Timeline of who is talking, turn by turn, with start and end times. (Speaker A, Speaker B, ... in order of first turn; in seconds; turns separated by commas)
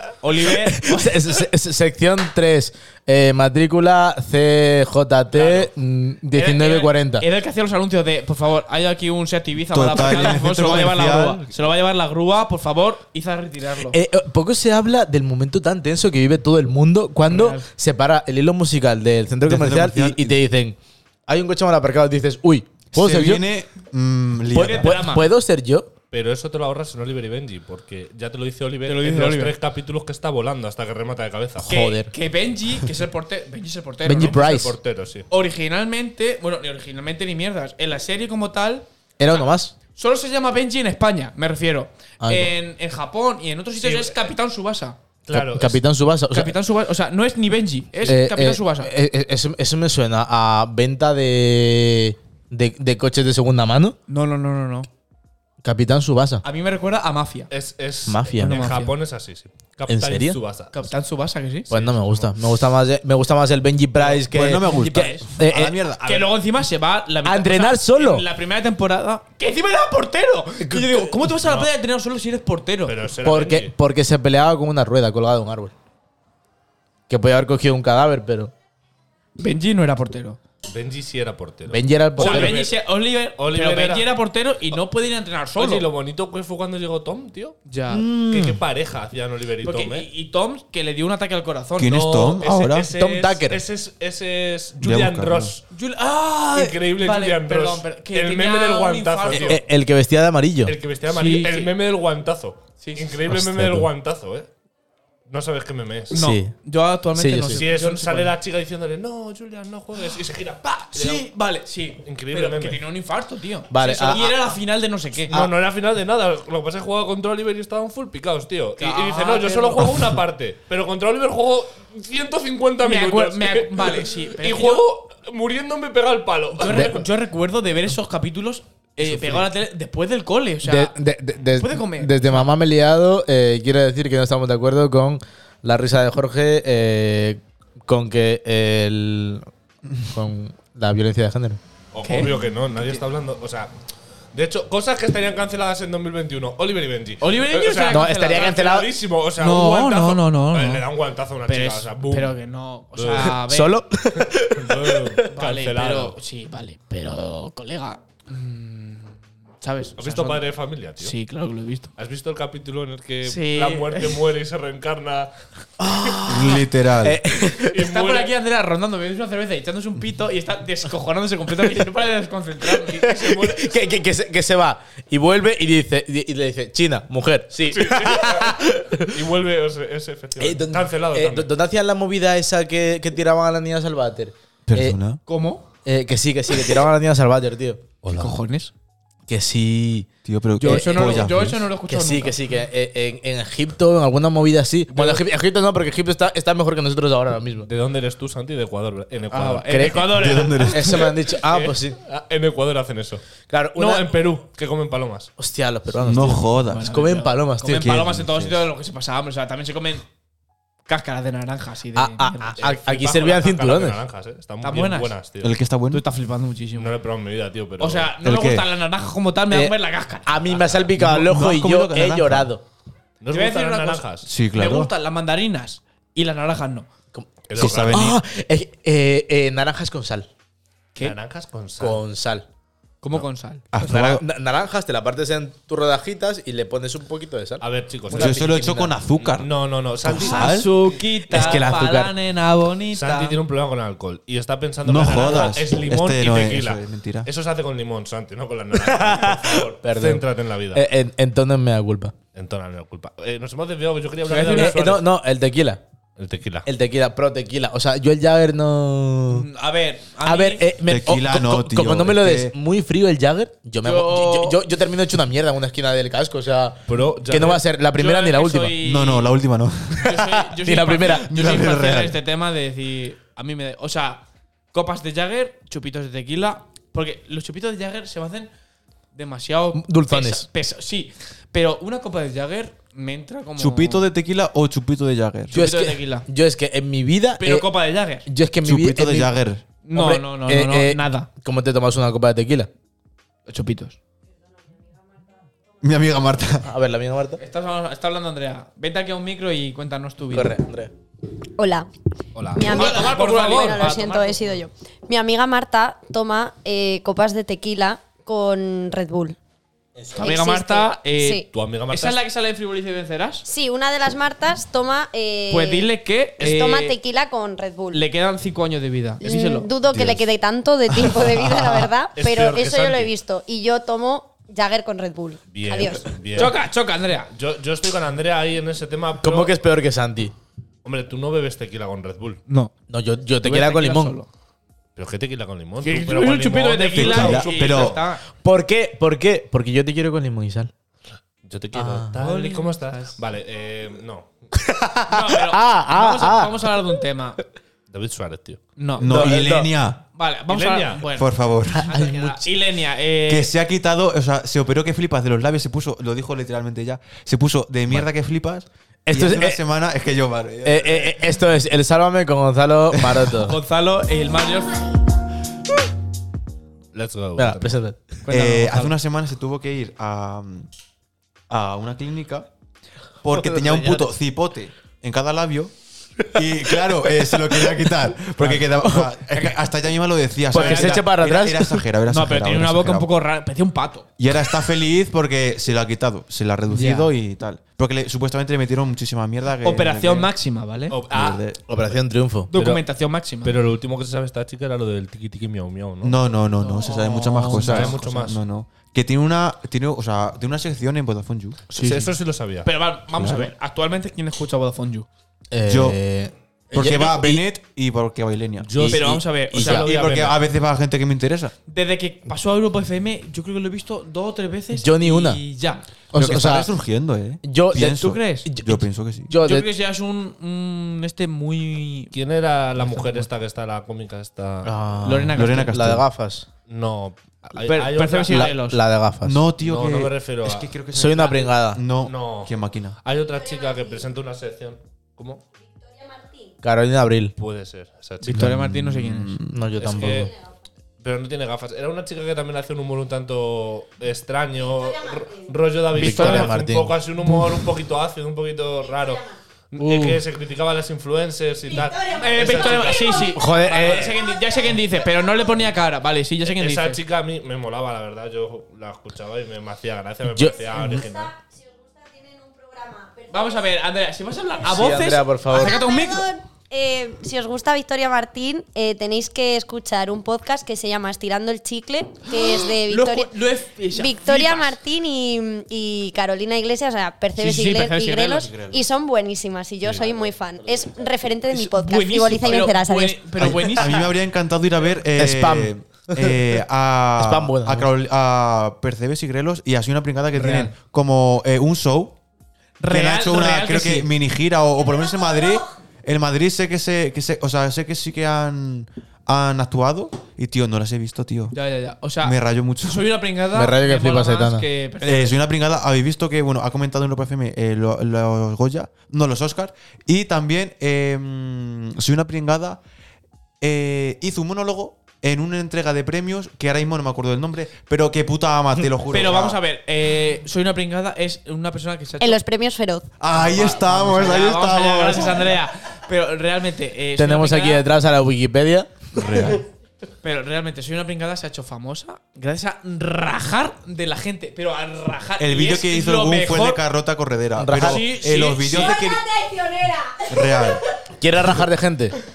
Speaker A: 0.2-1.4, Speaker B: 0.5-7.2, Speaker C: 5.3-5.7, Speaker A: 6.3-14.0, Speaker D: 9.7-11.5, Speaker B: 13.9-23.4, Speaker A: 17.3-17.7, Speaker D: 19.5-20.4, Speaker D: 22.9-24.9, Speaker B: 24.5-25.9, Speaker A: 24.6-25.3, Speaker C: 26.1-31.7, Speaker A: 28.8-29.6, Speaker B: 31.6-32.1, Speaker A: 31.7-34.4, Speaker B: 34.0-34.8, Speaker C: 34.2-35.3, Speaker A: 35.3-45.0, Speaker B: 39.2-39.7, Speaker B: 42.2-42.5, Speaker C: 43.8-44.2, Speaker C: 45.3-45.8, Speaker B: 45.3-46.5, Speaker A: 46.3-48.9, Speaker B: 48.1-54.0, Speaker A: 54.1-54.9, Speaker B: 55.6-56.4, Speaker A: 56.4-57.5, Speaker C: 57.5-60.7, Speaker B: 58.1-58.6, Speaker A: 58.4-59.0, Speaker B: 59.9-60.4, Speaker A: 60.7-61.7, Speaker B: 61.7-65.7, Speaker C: 61.7-62.3, Speaker D: 64.3-66.3, Speaker A: 64.6-73.0, Speaker B: 67.2-68.2, Speaker B: 70.6-71.1, Speaker C: 71.4-71.7, Speaker C: 72.8-73.7, Speaker B: 73.2-75.7, Speaker B: 77.1-78.5, Speaker A: 79.4-80.4, Speaker C: 80.7-82.8, Speaker B: 81.7-82.6, Speaker A: 82.2-85.9, Speaker C: 83.4-84.1, Speaker C: 85.6-87.6, Speaker A: 87.7-88.2, Speaker B: 87.9-88.6, Speaker C: 88.2-90.1, Speaker A: 89.6-92.0, Speaker D: 91.8-92.9, Speaker C: 91.9-95.6, Speaker B: 92.9-93.6, Speaker D: 94.8-95.6, Speaker A: 95.7-99.6, Speaker C: 96.5-99.6, Speaker B: 99.3-100.8, Speaker C: 100.7-104.5, Speaker A: 101.1-101.7, Speaker A: 102.8-103.2, Speaker B: 103.3-103.9, Speaker C: 105.3-106.2, Speaker B: 106.1-106.5, Speaker A: 106.1-108.3, Speaker B: 107.2-107.6, Speaker C: 107.6-111.2, Speaker A: 110.9-115.4, Speaker C: 112.0-112.8, Speaker B: 113.7-114.4, Speaker C: 115.3-127.1, Speaker A: 118.8-120.1, Speaker A: 122.8-124.8, Speaker A: 126.6-130.9, Speaker B: 126.7-126.9, Speaker C: 129.0-129.5, Speaker B: 130.6-139.5, Speaker A: 131.6-132.5, Speaker B: 140.0-141.6, Speaker C: 141.9-143.7, Speaker A: 142.0-143.0, Speaker C: 144.3-152.3, Speaker A: 147.2-148.6, Speaker B: 147.9-148.9, Speaker A: 149.4-150.9, Speaker A: 151.5-153.8, Speaker C: 152.9-153.4, Speaker B: 153.2-155.3, Speaker C: 154.2-156.2, Speaker A: 155.3-161.9, Speaker C: 160.0-161.2, Speaker C: 162.0-165.3, Speaker A: 163.2-164.3, Speaker B: 165.8-167.8, Speaker D: 166.3-167.2, Speaker C: 167.7-168.3, Speaker A: 167.7-173.1, Speaker B: 172.9-179.2, Speaker C: 172.9-173.7, Speaker C: 177.7-181.5, Speaker B: 180.4-185.0, Speaker D: 184.7-185.2, Speaker A: 185.3-185.7, Speaker B: 185.8-187.8, Speaker C: 188.0-188.3, Speaker A: 188.1-188.7, Speaker B: 189.3-190.1, Speaker D: 190.2-191.7, Speaker A: 190.6-192.4, Speaker B: 190.6-191.2, Speaker B: 191.9-197.7, Speaker C: 194.9-195.2, Speaker C: 197.6-200.4, Speaker A: 199.3-201.1, Speaker B: 199.7-200.1, Speaker D: 200.1-201.1, Speaker B: 200.7-202.0, Speaker C: 201.4-203.2, Speaker B: 203.5-204.1, Speaker C: 203.8-205.3, Speaker B: 205.4-207.9, Speaker D: 206.0-207.0, Speaker A: 206.2-210.1, Speaker D: 207.7-208.7, Speaker A: 210.9-212.6, Speaker B: 211.9-214.0, Speaker C: 212.6-215.6, Speaker A: 214.6-215.1, Speaker D: 215.4-216.1, Speaker A: 215.9-216.9, Speaker C: 216.8-218.1, Speaker A: 217.8-220.7, Speaker D: 218.2-218.7, Speaker B: 219.5-222.6, Speaker D: 221.0-222.5, Speaker C: 223.2-224.3, Speaker A: 223.3-226.9, Speaker D: 224.3-224.9, Speaker B: 227.1-230.3, Speaker C: 227.5-228.1, Speaker D: 227.6-228.2, Speaker C: 231.0-232.0, Speaker B: 231.8-232.5, Speaker A: 233.0-233.7, Speaker D: 233.7-234.2, Speaker B: 233.8-238.9, Speaker C: 237.6-238.5, Speaker D: 238.1-240.7, Speaker A: 238.2-238.8, Speaker C: 239.2-240.8, Speaker A: 240.1-243.4, Speaker B: 241.3-242.1, Speaker C: 242.9-250.8, Speaker D: 244.8-247.3, Speaker B: 248.9-252.1, Speaker C: 252.3-255.1, Speaker A: 254.3-254.8, Speaker B: 254.5-255.8, Speaker C: 256.2-256.7, Speaker B: 256.6-259.5, Speaker A: 259.3-260.7, Speaker B: 260.2-268.8, Speaker D: 260.9-262.5, Speaker A: 263.8-264.6, Speaker C: 266.9-267.6, Speaker A: 267.9-269.4, Speaker D: 268.8-270.3, Speaker A: 270.0-278.5, Speaker B: 270.4-271.3, Speaker D: 271.0-272.2, Speaker A: 279.1-284.1, Speaker B: 279.8-280.5, Speaker D: 283.6-285.6, Speaker A: 285.5-286.3, Speaker B: 285.5-287.7, Speaker A: 287.4-288.3, Speaker B: 288.3-289.4, Speaker D: 288.6-289.6, Speaker A: 289.8-291.3, Speaker B: 289.9-292.7, Speaker A: 293.5-294.0, Speaker D: 295.8-296.7, Speaker B: 296.6-297.4, Speaker A: 297.4-300.6, Speaker B: 300.3-300.9, Speaker E: 301.6-301.9, Speaker C: 302.4-304.1, Speaker E: 302.5-309.4, Speaker A: 302.6-304.5, Speaker B: 310.0-310.3, Speaker E: 310.1-311.5, Speaker A: 310.2-313.5, Speaker C: 311.5-312.2, Speaker E: 313.5-315.9, Speaker A: 315.5-317.0, Speaker E: 316.4-318.0, Speaker A: 317.9-319.7, Speaker E: 319.2-326.1, Speaker C: 322.1-323.1, Speaker C: 325.5-326.6, Speaker A: 326.3-327.3, Speaker C: 327.3-329.6, Speaker B: 329.2-330.3, Speaker C: 330.8-332.4, Speaker B: 332.9-334.2, Speaker A: 333.4-334.3, Speaker C: 335.0-338.0, Speaker A: 335.8-338.2, Speaker D: 336.9-338.0, Speaker B: 338.4-340.7, Speaker C: 341.4-344.4, Speaker B: 341.7-342.1, Speaker A: 342.1-343.2, Speaker B: 344.5-346.8, Speaker A: 345.1-347.4, Speaker C: 347.9-348.6, Speaker A: 348.8-349.4, Speaker D: 349.0-350.0, Speaker B: 349.1-349.7, Speaker A: 350.1-353.5, Speaker C: 350.5-351.0, Speaker D: 351.1-351.9, Speaker B: 351.8-352.5, Speaker D: 353.3-361.3, Speaker B: 359.1-359.6, Speaker B: 360.6-363.6, Speaker A: 363.2-365.0, Speaker C: 366.9-367.8, Speaker B: 367.4-368.1, Speaker A: 368.2-368.9, Speaker D: 368.3-370.7, Speaker D: 371.5-372.5, Speaker D: 373.2-375.7, Speaker B: 373.3-374.1, Speaker D: 376.3-383.1, Speaker B: 376.3-379.5, Speaker B: 380.5-381.9, Speaker A: 380.5-381.0, Speaker A: 382.1-384.1, Speaker D: 384.2-390.3, Speaker A: 386.7-387.1, Speaker A: 389.6-391.0, Speaker C: 390.9-391.4, Speaker D: 391.1-391.6, Speaker B: 391.7-392.5, Speaker A: 392.5-393.6, Speaker C: 392.5-392.8, Speaker C: 393.4-396.2, Speaker D: 396.0-401.6, Speaker A: 396.6-398.0, Speaker C: 397.5-398.4, Speaker A: 401.7-402.1, Speaker C: 401.7-402.7, Speaker A: 402.6-405.1, Speaker D: 403.1-403.5, Speaker B: 405.5-407.4, Speaker D: 405.7-406.0, Speaker D: 406.7-408.7, Speaker C: 408.6-410.4, Speaker B: 408.8-409.8, Speaker A: 408.9-410.0, Speaker D: 409.6-411.5, Speaker A: 411.7-415.9, Speaker B: 414.7-415.4, Speaker B: 416.1-416.7, Speaker D: 416.1-419.3, Speaker B: 417.4-419.7, Speaker A: 417.7-418.5, Speaker A: 419.4-422.1, Speaker C: 422.1-424.7, Speaker A: 422.8-423.2, Speaker B: 424.6-426.5, Speaker A: 425.1-425.7, Speaker D: 425.3-426.1, Speaker C: 426.7-428.5, Speaker A: 427.6-428.8, Speaker B: 428.3-429.4, Speaker D: 429.2-433.0, Speaker C: 429.6-430.7, Speaker B: 430.9-431.8, Speaker C: 432.0-435.4, Speaker E: 435.8-436.5, Speaker B: 436.6-437.3, Speaker C: 437.4-438.5, Speaker A: 438.2-439.4, Speaker D: 438.4-440.3, Speaker B: 439.5-440.3, Speaker C: 439.8-440.4, Speaker C: 441.0-453.4, Speaker B: 445.9-447.5, Speaker A: 446.0-446.6, Speaker B: 449.8-450.2, Speaker E: 451.8-453.0, Speaker A: 452.1-457.0, Speaker B: 453.3-454.3, Speaker C: 456.5-461.3, Speaker B: 460.3-461.0, Speaker E: 460.7-463.6, Speaker A: 463.3-466.3, Speaker B: 464.6-465.8, Speaker E: 465.5-473.4, Speaker A: 472.3-474.8, Speaker E: 473.9-483.8, Speaker A: 477.4-478.6, Speaker D: 478.4-478.8, Speaker A: 481.5-484.1, Speaker D: 483.4-492.2, Speaker B: 485.2-486.4, Speaker B: 487.2-487.9, Speaker A: 490.4-490.7, Speaker A: 492.8-494.1, Speaker D: 492.9-501.6, Speaker A: 501.5-505.4, Speaker D: 502.2-503.1, Speaker B: 503.5-504.6, Speaker D: 505.0-512.8, Speaker D: 513.6-519.6, Speaker A: 519.1-522.4, Speaker E: 522.2-523.1, Speaker D: 523.2-525.6, Speaker A: 523.3-527.9, Speaker B: 527.2-529.6, Speaker D: 529.1-529.6, Speaker A: 530.2-536.8, Speaker D: 535.4-539.2, Speaker B: 537.6-538.1, Speaker A: 537.7-539.1, Speaker E: 538.8-540.8, Speaker D: 540.3-540.8, Speaker B: 541.2-542.2